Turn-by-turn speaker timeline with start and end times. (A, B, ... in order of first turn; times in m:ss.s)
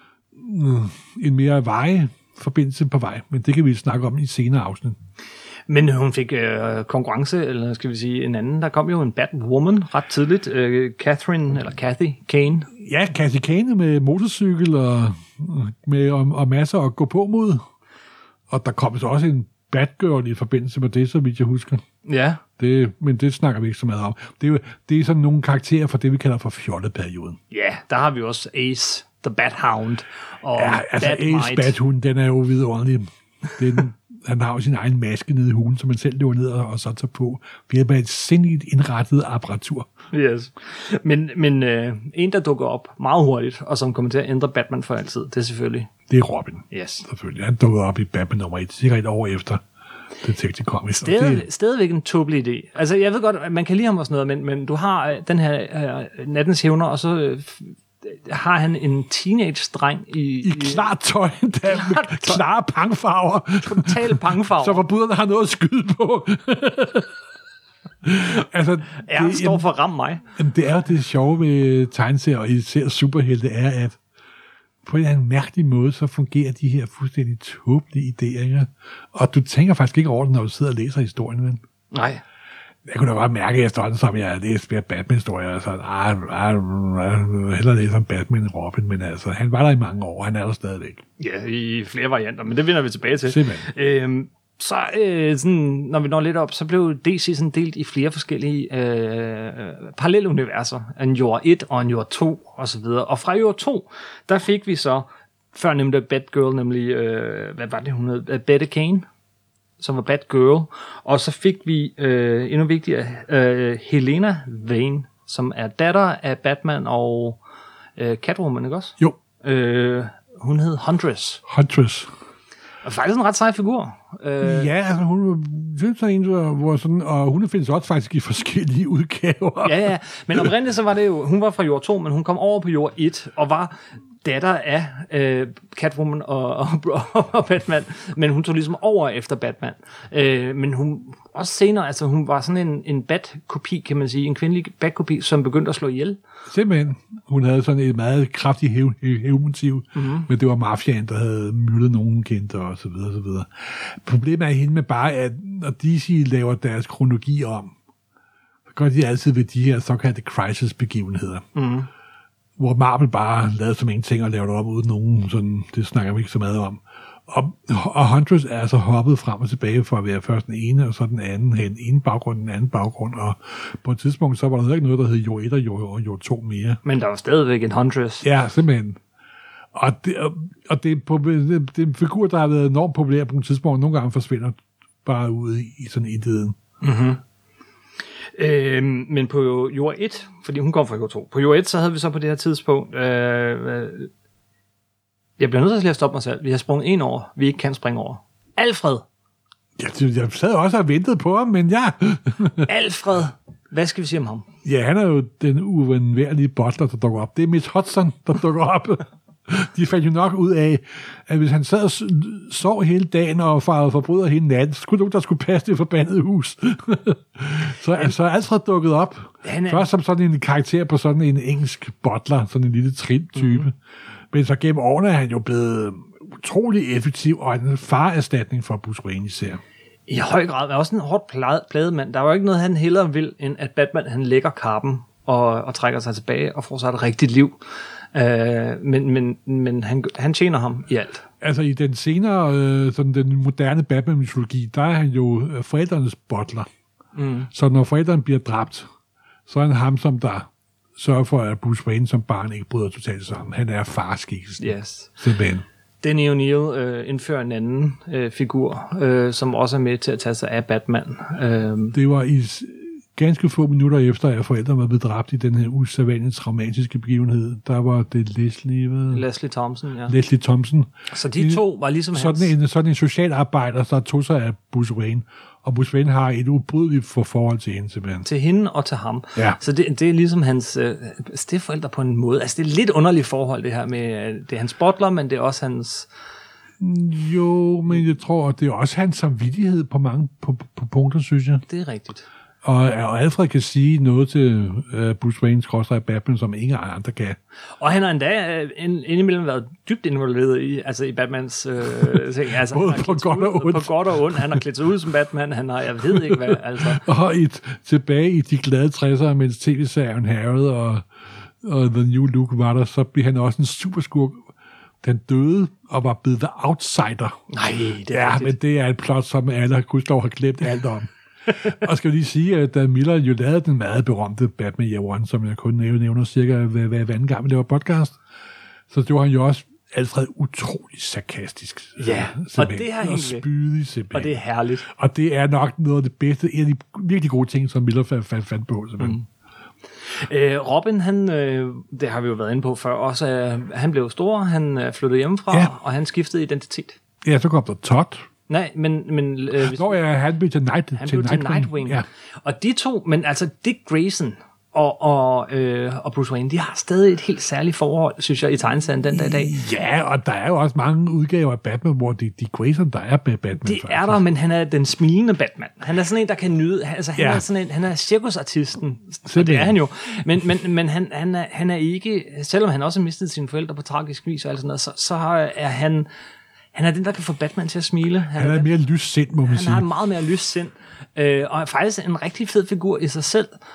0:00.4-0:05.0 A
0:05.7-0:12.7 B
0:12.8-0:17.6 A
0:18.5-0:21.8 A
0:22.0-0:22.4 B
0:22.6-0:27.4 A
0:27.5-0:31.8 B
0:30.5-0:39.9 A
0:40.1-0:45.9 B
0:46.1-0:49.6 A
0:46.7-0:47.0 B
0:50.2-0:51.5 A
0:51.0-1:00.9 B
1:00.4-1:07.1 A
1:01.7-1:02.4 B
1:03.6-1:04.8 B
1:08.0-1:09.7 A
1:09.0-1:10.2 B
1:10.4-1:14.0 A
1:14.8-1:21.6 A
1:21.9-1:22.2 B
1:22.9-1:31.0 A
1:31.2-1:49.1 B
1:33.2-1:33.7 A
1:49.8-1:57.4 B
1:58.0-2:01.4 B
2:01.5-2:02.1 A
2:02.8-2:04.7 B
2:04.4-2:10.5 A
2:09.6-2:26.2 B
2:26.5-2:37.7 A
2:30.0-2:30.3 B
2:38.7-2:41.4 A
2:41.6-2:41.9 B
2:42.6-2:56.8 A
2:56.8-2:58.2 B
2:58.2-2:59.0 A
2:59.8-3:06.6 A
3:06.8-3:07.2 B
3:08.4-3:14.1 B
3:15.4-3:19.0 B
3:19.8-3:22.7 A
3:22.6-3:24.5 B
3:24.6-3:43.7 A
3:39.4-3:39.9 B
3:43.4-3:43.7 B
3:44.3-3:49.6 A
3:50.1-3:57.6 B
3:58.1-4:01.2 B
4:01.4-4:06.7 A
4:07.2-4:07.5 B
4:07.5-4:08.9 A
4:09.5-4:15.6 A
4:14.6-4:15.2 B
4:16.0-4:22.0 B
4:21.9-4:29.2 A
4:29.1-4:30.2 B
4:30.1-4:38.3 A
4:31.1-4:32.5 B
4:38.2-4:46.1 B
4:46.8-4:51.6 A
4:51.7-4:52.3 B
4:52.6-4:57.4 A
4:57.8-5:07.0 B
5:02.6-5:04.6 A
5:06.3-5:11.0 A
5:11.6-5:14.5 A
5:15.0-5:17.4 A
5:17.5-5:18.6 B
5:18.1-5:28.2 A
5:28.9-5:39.2 A
5:32.0-5:33.4 B
5:34.1-5:34.9 B
5:40.1-5:47.0 B
5:47.2-5:48.2 A
5:48.5-5:50.0 B
5:49.6-5:52.0 A
5:51.0-5:59.6 B
5:59.1-6:04.2 A
6:03.6-6:16.1 B
6:07.2-6:07.4 A
6:09.3-6:09.8 A
6:16.7-6:18.7 B
6:18.4-6:19.9 A
6:19.4-6:23.6 B